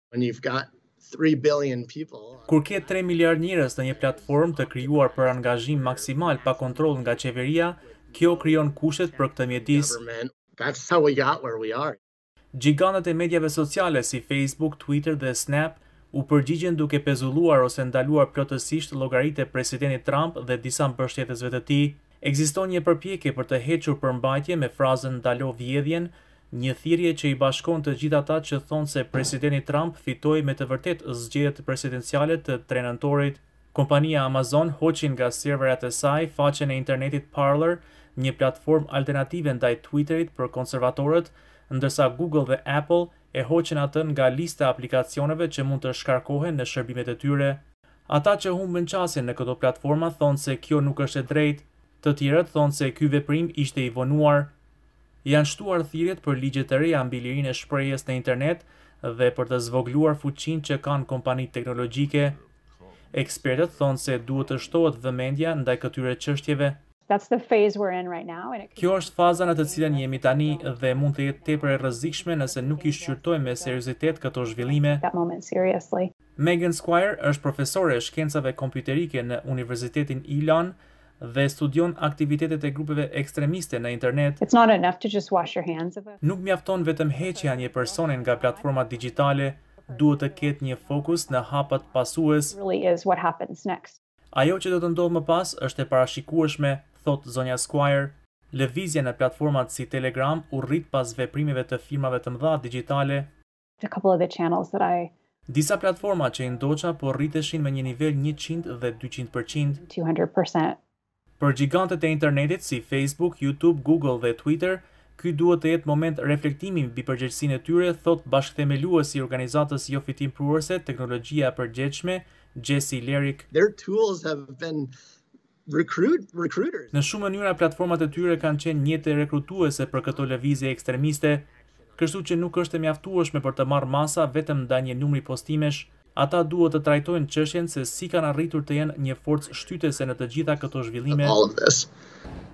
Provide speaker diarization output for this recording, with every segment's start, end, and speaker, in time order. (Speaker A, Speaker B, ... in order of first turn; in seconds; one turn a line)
Speaker A: 0.1-3.0
Speaker B: 2.5-10.0
Speaker A: 3.7-7.4
Speaker A: 8.0-12.0
Speaker B: 12.5-54.5
Speaker B: 55.2-62.4
Speaker B: 63.1-66.8
Speaker C: 67.1-76.1
Speaker B: 68.8-75.0
Speaker B: 76.4-84.4
Speaker C: 84.4-86.2
Speaker B: 86.2-92.6
Speaker C: 87.1-94.0
Speaker B: 94.3-103.3
Speaker C: 103.8-105.1
Speaker B: 105.5-109.8
Speaker C: 109.8-110.8
Speaker B: 111.4-123.5
Speaker A: 123.5-124.9
Speaker A: 125.7-130.4
Speaker B: 126.9-131.5
Speaker A: 131.8-132.3
Speaker B: 132.0-141.4
Speaker A: 139.6-140.6
Speaker A: 141.1-141.9